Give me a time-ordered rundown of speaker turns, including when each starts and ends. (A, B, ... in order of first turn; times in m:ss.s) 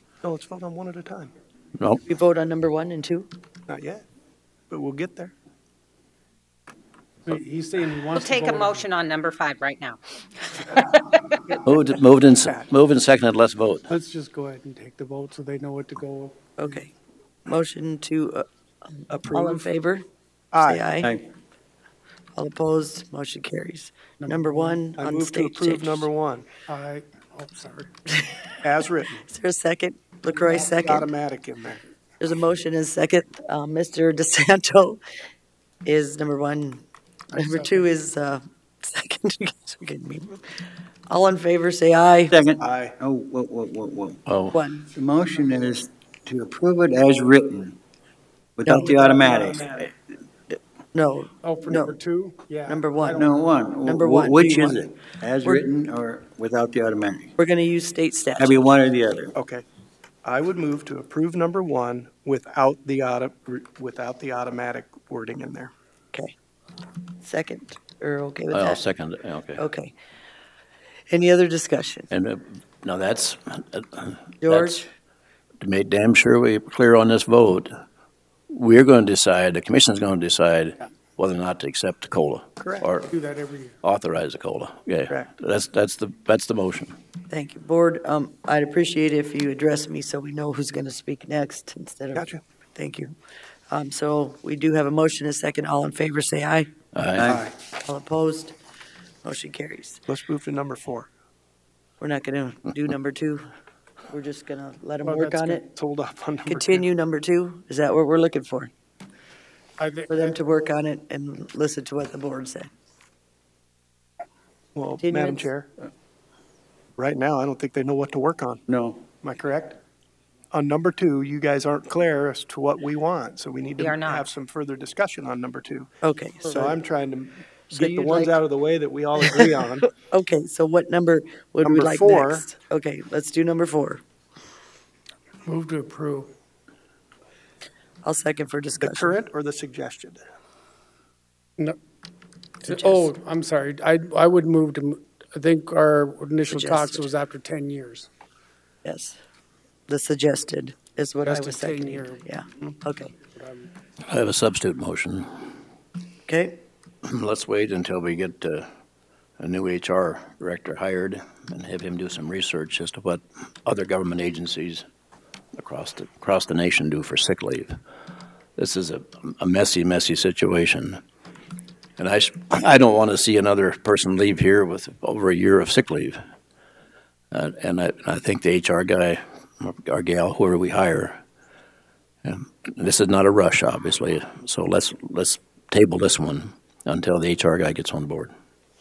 0:00.2-0:01.3 A
0:02.0-0:03.3 B
0:03.7-0:04.0 A
0:04.7-0:05.3 A
0:07.3-0:08.8 C
0:08.2-0:11.6 D
0:11.6-0:13.9 E
0:13.9-0:16.4 C
0:16.6-0:16.9 B
0:17.5-0:20.0 B
0:19.1-0:19.7 A
0:20.5-0:20.9 A
0:20.6-0:21.1 B
0:22.4-0:26.1 B
0:24.2-0:24.8 C
0:25.0-0:26.5 A
0:26.7-0:27.9 C
0:28.1-0:28.4 B
0:28.6-0:29.2 A
0:29.2-0:31.1 B
0:30.5-0:31.8 A
0:32.2-0:35.0 B
0:35.8-0:36.8 B
0:37.3-0:37.9 C
0:37.4-0:42.4 B
0:42.3-0:44.2 F
0:42.6-0:43.0 A
0:44.3-0:44.6 E
0:44.5-0:44.9 B
0:44.9-0:47.8 F
0:48.6-0:49.9 F
0:48.7-0:49.0 B
0:48.7-0:49.8 C
0:50.9-0:52.0 B
0:51.4-0:53.3 C
0:52.7-0:53.3 B
0:53.1-0:57.3 F
0:53.8-0:54.8 B
0:55.4-0:55.7 B
0:57.4-0:58.6 B
0:58.4-0:59.3 F
0:59.3-0:59.6 A
1:00.2-1:05.7 A
1:07.2-1:08.8 B
1:08.5-1:09.6 E
1:09.6-1:09.9 B
1:11.1-1:12.1 B
1:12.1-1:14.8 E
1:14.4-1:14.9 B
1:15.6-1:17.7 E
1:18.5-1:23.1 E
1:22.6-1:22.9 A
1:23.1-1:23.8 C
1:23.8-1:27.0 E
1:27.3-1:33.1 B
1:32.1-1:32.4 A
1:33.7-1:36.7 B
1:37.0-1:37.4 E
1:37.2-1:37.4 F
1:37.3-1:37.5 A
1:37.7-1:38.6 B
1:39.2-1:40.0 B
1:40.1-1:41.1 A
1:42.0-1:43.4 B
1:44.1-1:45.6 B
1:45.0-1:45.6 C
1:45.6-1:46.9 A
1:46.5-1:48.7 B
1:49.8-1:50.4 C
1:50.1-1:52.7 B
1:54.8-1:55.7 A
1:55.0-1:55.5 B
1:57.0-1:59.8 A
1:58.7-1:59.1 F
2:00.5-2:05.9 A
2:03.8-2:04.3 D
2:06.0-2:06.7 B
2:06.5-2:09.9 A
2:07.7-2:08.4 B
2:09.2-2:14.0 B
2:11.6-2:12.5 A
2:15.5-2:16.3 C
2:18.0-2:19.2 B
2:18.8-2:20.2 A
2:22.6-2:28.1 C
2:22.7-2:23.1 B
2:26.5-2:27.1 B
2:28.8-2:29.2 B
2:29.9-2:33.1 B
2:31.2-2:33.7 C
2:34.0-2:35.5 E
2:36.3-2:36.6 B
2:37.0-2:38.7 E
2:39.4-2:44.9 E
2:45.6-2:47.8 E
2:48.6-2:51.0 E
2:52.0-2:56.2 E
2:57.3-3:01.2 E
3:02.2-3:08.3 E